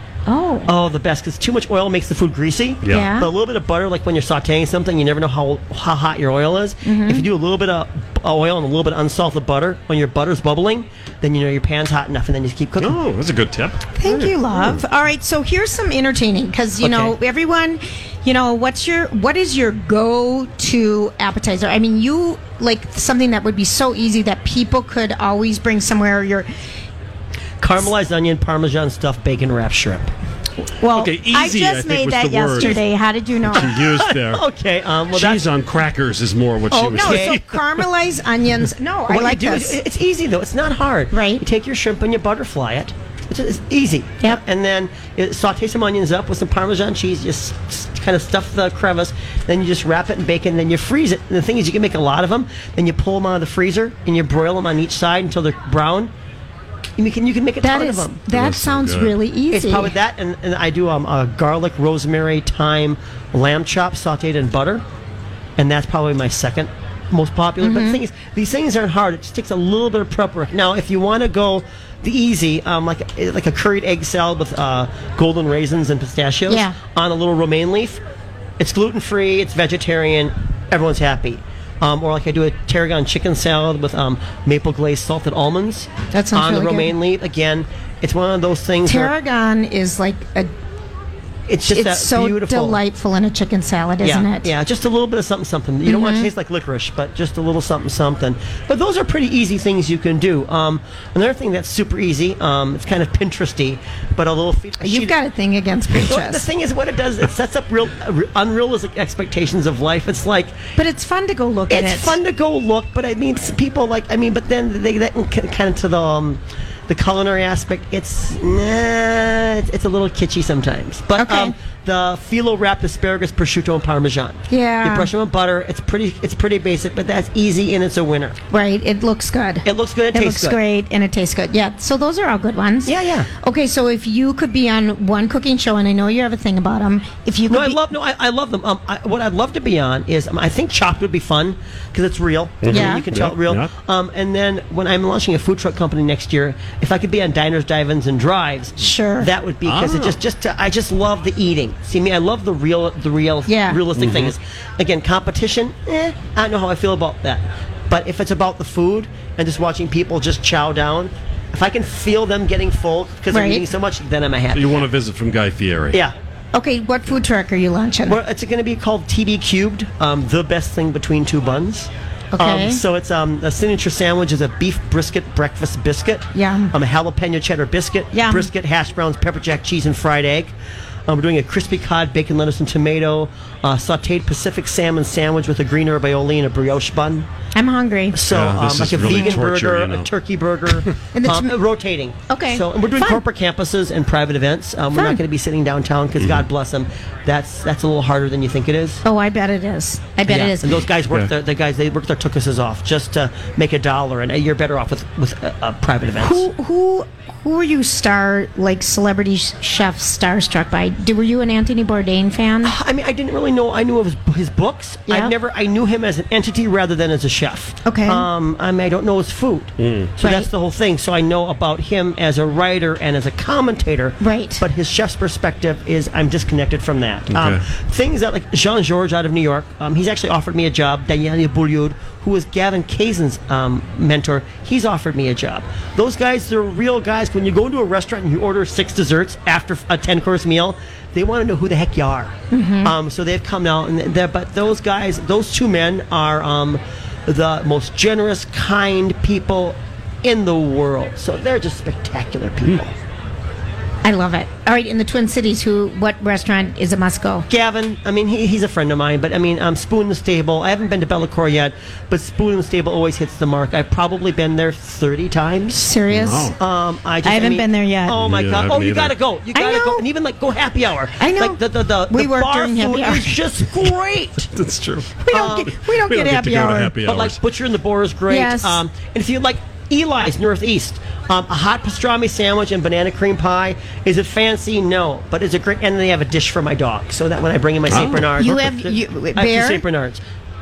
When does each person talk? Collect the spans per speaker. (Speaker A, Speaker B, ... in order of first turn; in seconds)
Speaker A: 0.3-0.7, 2.9-3.3, 6.8-7.2, 13.9-26.5, 30.8-33.7, 36.7-39.8, 41.1-41.4, 57.6-59.9, 67.6-68.0, 76.5-76.8, 86.1-86.9, 88.8-90.5, 91.7-94.5, 95.8-96.3, 104.8-106.4, 110.8-112.2, 121.2-121.5, 124.5-125.1, 128.5-137.8, 142.7-143.0, 148.8-149.3, 153.5-153.8, 163.3-163.6, 166.5-168.2, 172.3-172.8, 176.3-176.7, 178.1-178.5, 187.5-188.2, 189.1-189.4, 191.1-191.5, 192.3-193.2, 194.9-195.2, 199.0-200.8, 206.2-212.7, 217.8-218.2, 220.2-220.5, 224.2-224.6, 242.5-242.9, 254.0-257.5, 265.7-266.6, 267.2-268.1, 269.5-270.0, 271.2-273.4, 275.2-276.9, 278.3-278.8, 288.3-289.8
Speaker B: 0.7-13.0, 16.8-17.1, 27.6-30.1, 33.6-35.4, 36.8-37.4, 39.1-56.1, 57.0-58.1, 59.5-64.8, 65.6-78.0, 78.6-89.1, 91.5-92.8, 94.0-105.2, 106.0-110.5, 111.7-128.4, 129.6-130.6, 132.8-133.3, 137.5-164.8, 168.1-180.5, 181.1-187.3, 188.1-199.0, 200.3-206.4, 212.6-252.9, 257.5-265.9, 266.6-274.5, 275.3-275.7, 277.0-290.2
Speaker C: 2.8-3.1, 12.8-14.8, 30.8-32.8, 33.5-34.4, 35.1-37.6, 58.3-59.1, 142.6-143.7, 149.6-150.2, 154.0-154.3, 164.5-166.0, 188.2-190.1, 196.2-196.5, 219.8-220.1, 227.3-227.6, 266.1-266.6, 268.2-269.1, 274.5-275.3, 275.9-277.4, 287.9-288.3